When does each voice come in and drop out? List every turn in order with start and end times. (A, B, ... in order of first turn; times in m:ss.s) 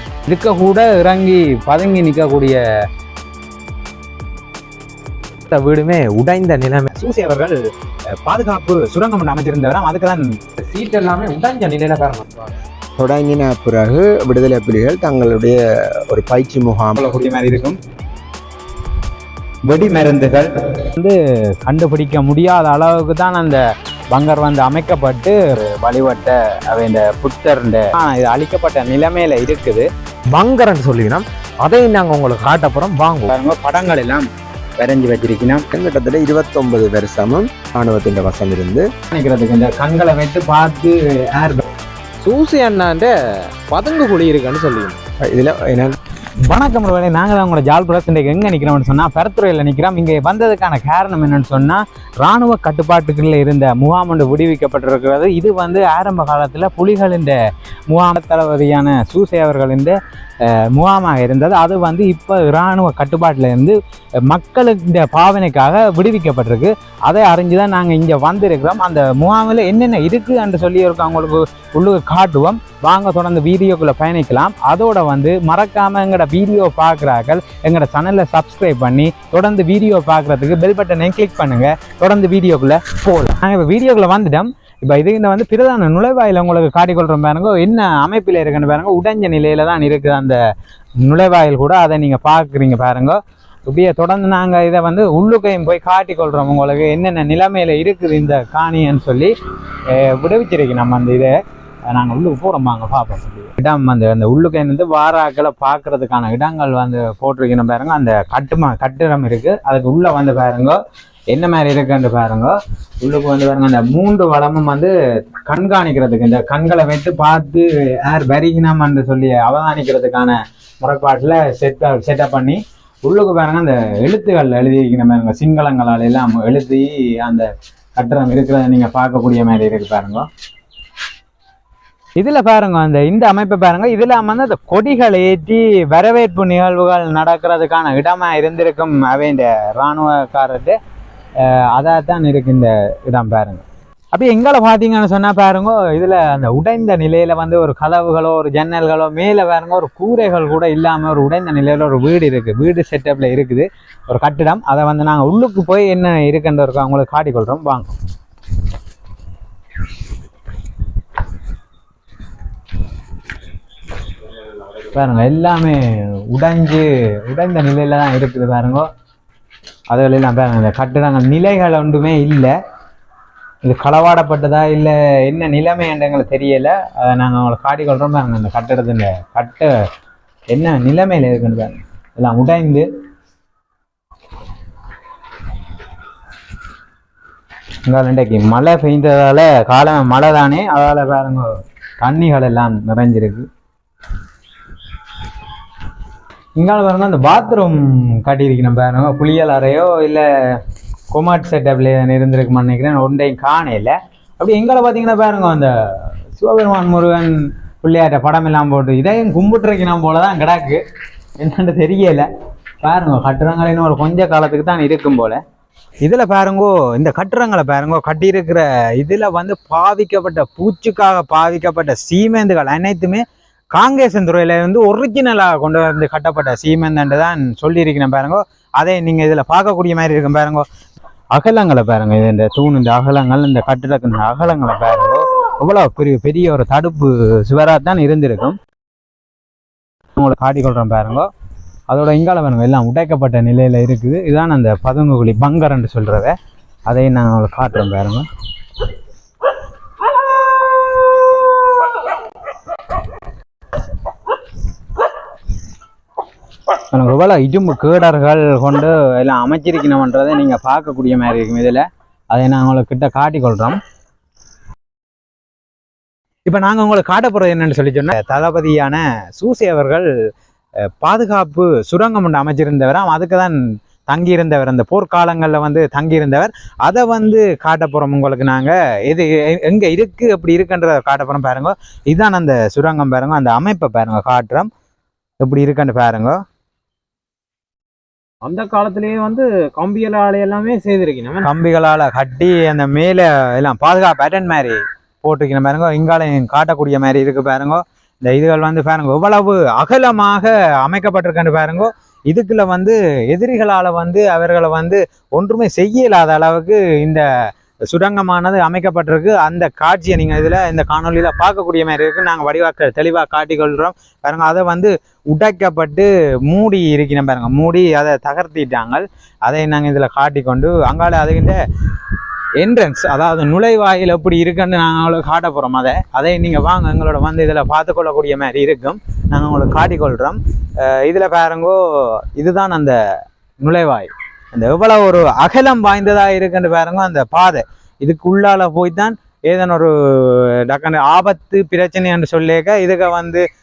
0:00.2-0:02.6 A
0:05.5-0:06.9 B
0:06.9-0:07.7 A
0:08.2-0:10.3 A
0:10.6-0:12.5 B
0:13.0-0:17.0 C
0:17.0-0:17.8 A
0:19.7-0:29.9 A
0:30.3-0:33.3 B
0:33.3-0:34.3 A
0:34.8-0:35.6 A
0:35.7-0:38.9 C
0:39.1-0:41.6 A
0:42.2-0:43.1 B
0:43.7-0:45.0 B
0:45.2-0:46.0 C
0:46.5-0:57.4 A
0:57.9-1:03.8 A
1:04.3-1:30.4 A
1:31.0-1:39.3 A
1:39.9-1:41.4 A
1:41.9-1:50.8 A
1:51.3-1:54.9 A
1:55.5-2:10.3 A
2:12.2-2:20.8 A
2:21.4-2:38.0 A
2:44.9-2:48.9 A
2:49.9-2:52.5 A
2:53.6-2:59.7 A
3:00.5-3:02.9 A
3:07.9-3:11.5 A
3:12.0-3:13.5 A
3:16.6-3:30.8 A
3:31.4-3:32.3 A
3:32.8-3:35.4 A
3:36.0-3:50.7 A
3:51.3-3:58.6 A
4:00.2-4:01.3 A
4:01.9-4:06.4 A
4:06.9-4:08.3 A
4:16.9-4:23.8 A
4:26.5-4:30.1 A
4:31.0-4:44.7 A
4:45.4-4:46.4 A
4:48.4-4:51.5 B
4:51.4-5:07.2 A
5:07.9-5:21.6 A
5:22.6-5:33.0 A
5:33.6-5:43.4 A